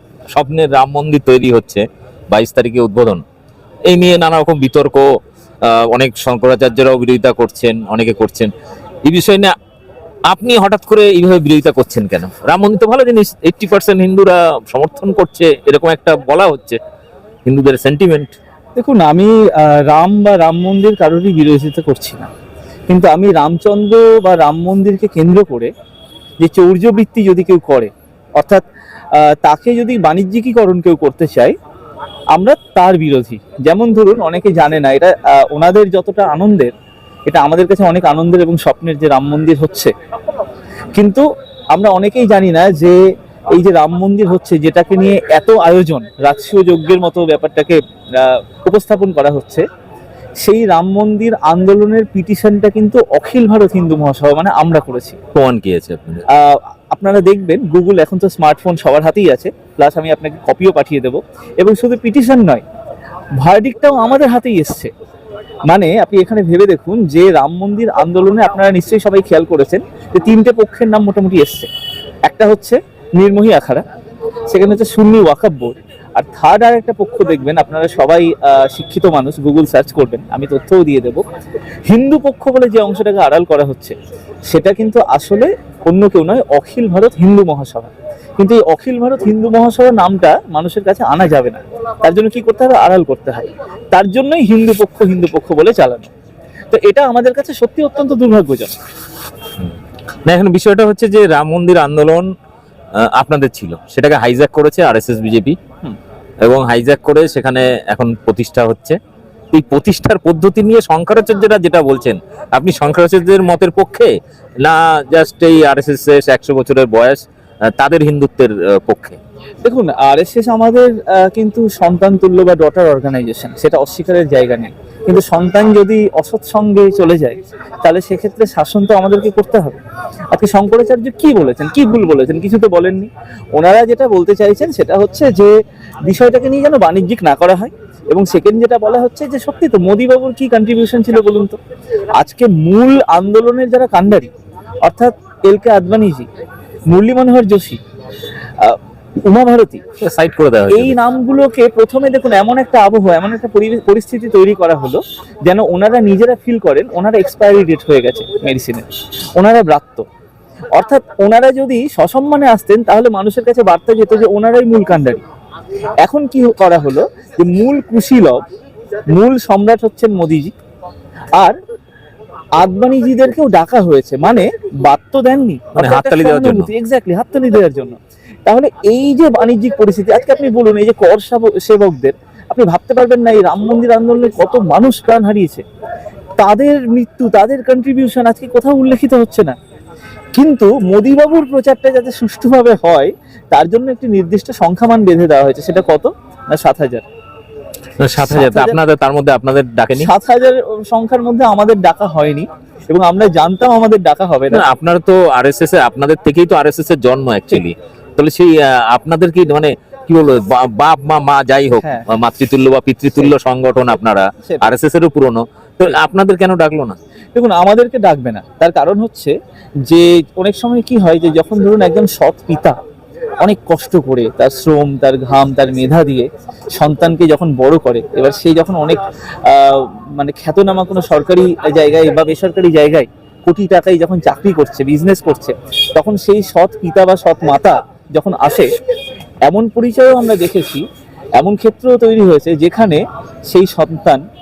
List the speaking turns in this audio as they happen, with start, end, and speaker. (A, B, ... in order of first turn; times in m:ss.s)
0:00.3-0:03.2 A
0:03.9-0:05.1 A
0:05.6-0:08.5 A
0:09.1-0:09.5 A
0:10.3-0:16.8 A
0:17.5-0:18.3 A
0:18.8-0:22.3 B
0:22.9-0:25.7 B
0:26.4-0:28.6 B
0:29.2-0:31.5 B
0:32.4-0:36.7 B
0:37.3-0:39.9 B
0:41.0-0:43.0 B
0:43.6-0:49.6 B
0:50.4-0:55.2 B
0:55.4-0:56.2 A
0:56.4-1:02.6 B
1:03.4-1:04.9 B
1:05.7-1:11.7 B
1:12.3-1:13.8 B
1:14.5-1:21.2 B
1:21.9-1:24.0 B
1:24.5-1:36.1 B
1:36.7-1:38.8 B
1:40.3-1:42.3 A
1:43.0-1:45.6 A
1:46.4-1:49.0 A
1:49.5-1:54.1 A
1:54.6-1:57.2 A
1:57.8-1:59.2 A
1:59.6-2:09.8 B
2:10.3-2:15.5 B
2:16.1-2:21.6 B
2:22.2-2:24.3 B
2:24.8-2:26.3 B
2:26.9-2:27.8 B
2:28.6-2:29.8 B
2:30.0-2:31.0 A
2:30.7-2:38.8 B
2:39.4-2:40.0 B
2:40.8-2:45.2 B
2:46.0-2:48.4 B
2:49.1-2:50.5 B
2:52.6-2:58.0 B
2:55.8-2:56.7 A
2:58.5-3:05.6 B
3:06.4-3:09.6 B
3:10.4-3:17.0 B
3:18.0-3:20.1 A
3:18.2-3:18.8 B
3:20.0-3:24.6 B
3:24.5-3:37.0 A
3:31.8-3:32.1 B
3:37.4-3:39.3 B
3:39.9-3:42.8 B
3:43.4-3:58.7 B
3:59.5-4:00.8 B
4:01.4-4:04.2 B